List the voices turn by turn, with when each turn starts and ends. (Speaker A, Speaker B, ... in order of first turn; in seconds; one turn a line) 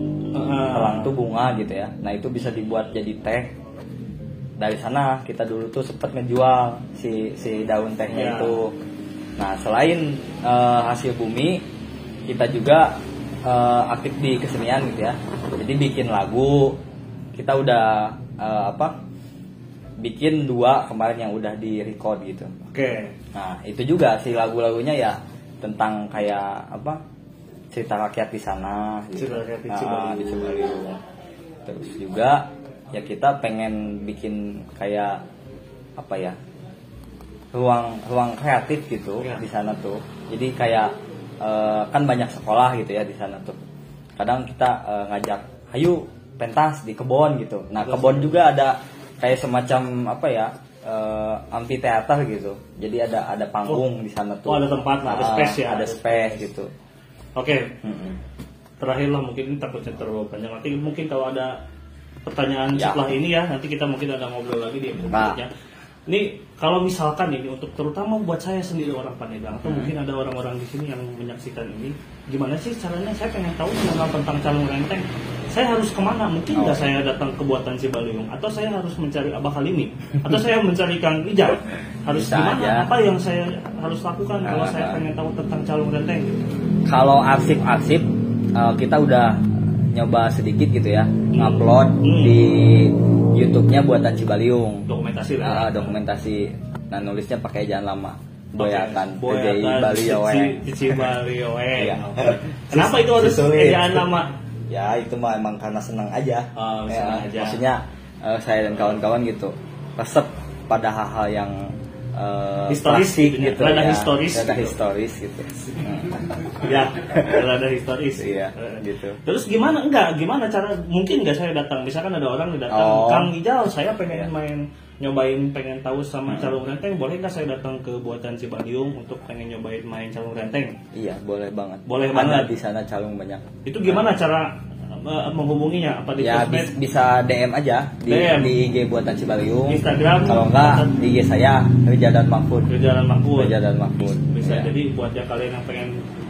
Speaker A: 0.3-1.1
Speaker B: 0.7-3.5
Speaker B: 4.6-8.7
Speaker A: 8.1-8.6
Speaker B: 9.4-11.6
Speaker B: 12.3-16.8
Speaker B: 17.4-18.9
Speaker B: 20.0-22.5
Speaker A: 22.7-23.1
Speaker B: 23.3-27.0
Speaker B: 27.7-31.0
Speaker A: 29.2-30.2
Speaker B: 31.7-35.2
Speaker B: 36.0-36.4
Speaker B: 37.5-43.6
Speaker B: 44.2-56.7
Speaker A: 47.8-48.3
Speaker A: 54.5-56.5
Speaker A: 57.4-57.7
Speaker B: 57.8-58.2
Speaker A: 58.8-61.6
Speaker A: 62.3-65.5
Speaker B: 62.8-63.1
Speaker B: 65.0-65.4
Speaker A: 66.1-86.4
Speaker B: 69.6-69.9
Speaker B: 76.5-76.9
Speaker B: 82.1-82.9
Speaker B: 84.4-85.0
Speaker B: 86.9-94.9
Speaker A: 91.3-92.4
Speaker A: 94.9-95.9
Speaker B: 95.4-101.1
Speaker A: 98.6-104.3
Speaker B: 101.8-104.1
Speaker B: 104.7-117.5
Speaker A: 106.6-107.6
Speaker A: 112.7-114.8
Speaker A: 116.6-130.8
Speaker B: 118.2-119.2
Speaker B: 122.7-123.3
Speaker B: 126.3-126.5
Speaker B: 130.9-134.1
Speaker A: 131.9-132.5
Speaker A: 133.7-134.5
Speaker A: 135.0-136.7
Speaker B: 136.2-142.7
Speaker A: 138.1-138.6
Speaker A: 139.7-140.9
Speaker A: 142.7-146.0
Speaker B: 143.3-144.7